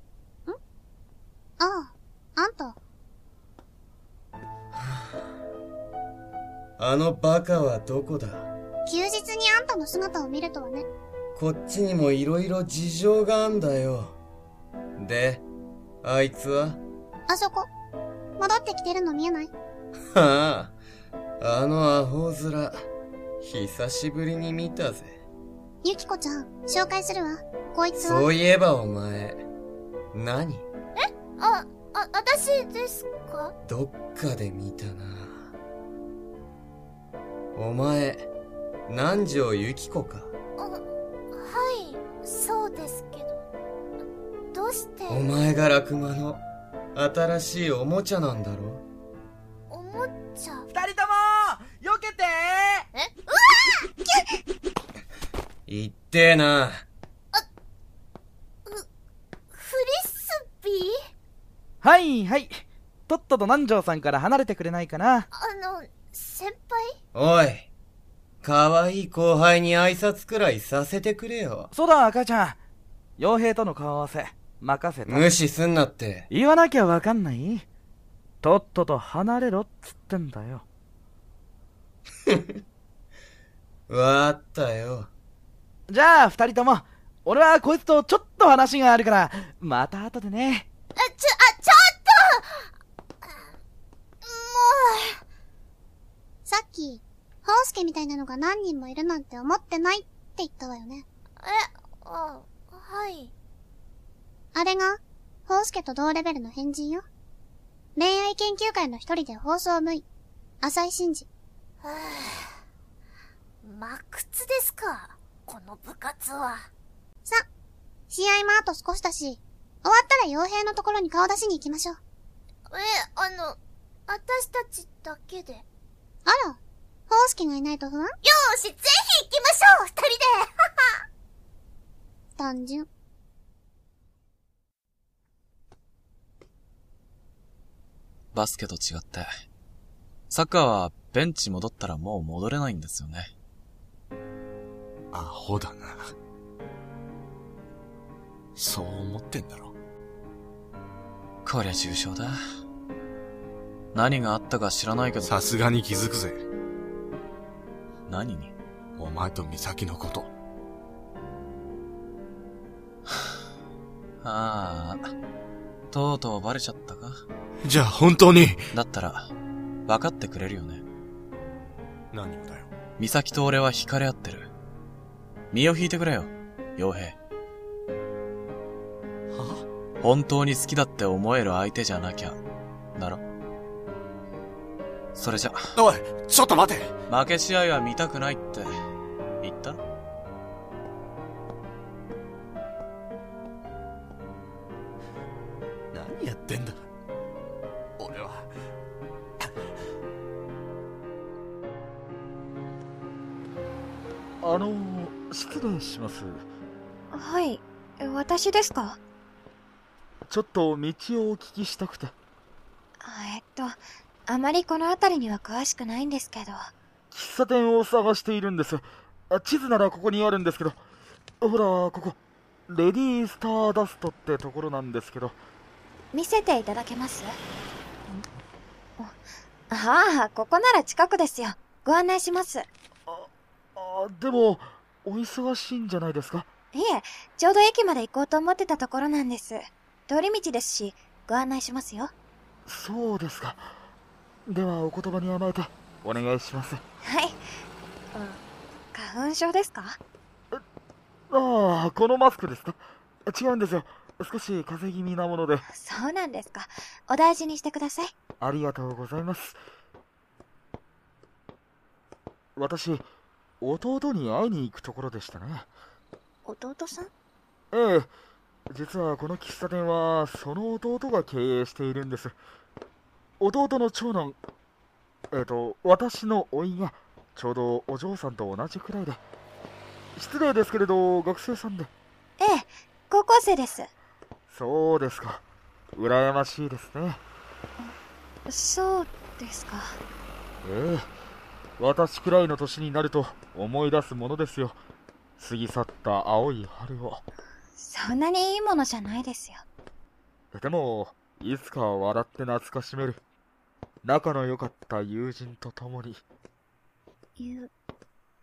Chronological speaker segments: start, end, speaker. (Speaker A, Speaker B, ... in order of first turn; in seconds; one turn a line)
Speaker A: 1.6-2.8
Speaker B: 4.8-5.1
Speaker B: 6.8-8.5
Speaker A: 8.9-10.9
Speaker B: 11.3-14.2
Speaker B: 15.0-15.4
Speaker B: 16.0-16.8
Speaker A: 17.3-17.7
Speaker A: 18.4-19.5
Speaker B: 20.1-20.8
Speaker B: 21.4-22.9
Speaker B: 23.4-25.2
Speaker A: 25.8-28.3
Speaker B: 28.0-29.5
Speaker B: 30.1-30.7
Speaker C: 31.0-33.5
Speaker B: 33.6-35.5
Speaker B: 37.5-38.3
Speaker B: 38.9-40.3
Speaker C: 40.6-43.4
Speaker C: 44.5-45.3
Speaker B: 45.1-46.4
Speaker B: 47.0-48.8
Speaker C: 49.7-50.7
Speaker D: 50.7-52.9
Speaker C: 52.9-53.9
Speaker B: 55.7-56.9
Speaker C: 59.5-61.0
Speaker D: 61.8-65.3
Speaker C: 65.3-67.0
Speaker B: 67.1-67.7
Speaker B: 68.4-71.7
Speaker D: 71.7-72.6
Speaker D: 73.2-75.3
Speaker B: 75.1-76.3
Speaker D: 76.3-77.7
Speaker D: 78.4-80.7
Speaker B: 82.3-82.6
Speaker B: 83.9-85.1
Speaker D: 85.9-90.7
Speaker C: 91.0-92.7
Speaker C: 93.2-93.5
Speaker C: 94.2-95.2
Speaker A: 96.5-101.0
Speaker C: 101.4-103.3
Speaker A: 104.5-107.0
Speaker A: 108.0-110.0
Speaker A: 110.6-111.3
Speaker C: 111.8-112.6
Speaker C: 113.6-116.7
Speaker A: 118.1-122.0
Speaker C: 122.7-125.7
Speaker A: 126.3-128.1
Speaker C: 128.2-131.0
Speaker A: 132.4-132.9
Speaker E: 138.3-139.3
Speaker E: 140.3-143.3
Speaker F: 145.1-146.1
Speaker F: 148.6-149.7
Speaker E: 151.4-152.4
Speaker E: 153.9-155.3
Speaker F: 155.2-156.4
Speaker E: 158.1-158.5
Speaker F: 159.0-160.3
Speaker E: 164.2-165.1
Speaker E: 165.9-167.2
Speaker F: 167.6-168.7
Speaker E: 168.7-169.3
Speaker E: 169.9-170.8
Speaker F: 172.1-172.7
Speaker E: 173.0-174.5
Speaker E: 175.5-177.2
Speaker F: 179.3-179.7
Speaker E: 180.0-182.4
Speaker E: 183.0-183.2
Speaker E: 185.2-185.7
Speaker F: 185.8-186.9
Speaker E: 187.1-188.7
Speaker E: 189.4-189.8
Speaker F: 195.9-196.9
Speaker F: 198.0-198.5
Speaker G: 204.4-206.4
Speaker H: 207.1-209.0
Speaker G: 210.3-212.1
Speaker H: 213.0-216.7
Speaker G: 217.1-220.8
Speaker G: 221.4-222.2
Speaker G: 222.7-225.4
Speaker H: 226.1-227.4
Speaker H: 229.7-232.7
Speaker G: 233.1-236.5
Speaker H: 236.7-242.1
Speaker G: 242.7-243.7
Speaker G: 244.5-246.8
Speaker H: 247.0-247.4
Speaker H: 248.1-248.4
Speaker H: 248.9-250.0
Speaker G: 251.3-255.7
Speaker H: 255.7-258.1
Speaker G: 258.4-259.6
Speaker G: 262.6-263.1
Speaker G: 263.6-265.7
Speaker H: 266.5-267.1
Speaker G: 267.7-268.1
Speaker G: 268.7-272.4
Speaker G: 273.4-274.4
Speaker G: 275.3-279.2
Speaker G: 280.2-281.9
Speaker H: 282.4-283.9
Speaker G: 284.5-285.4
Speaker G: 285.9-287.2
Speaker H: 288.5-290.0
Speaker G: 290.6-291.1
Speaker G: 291.8-294.8
Speaker G: 295.4-297.2
Speaker H: 297.8-299.6
Speaker G: 300.5-303.2
Speaker G: 304.0-306.2
Speaker H: 307.4-307.7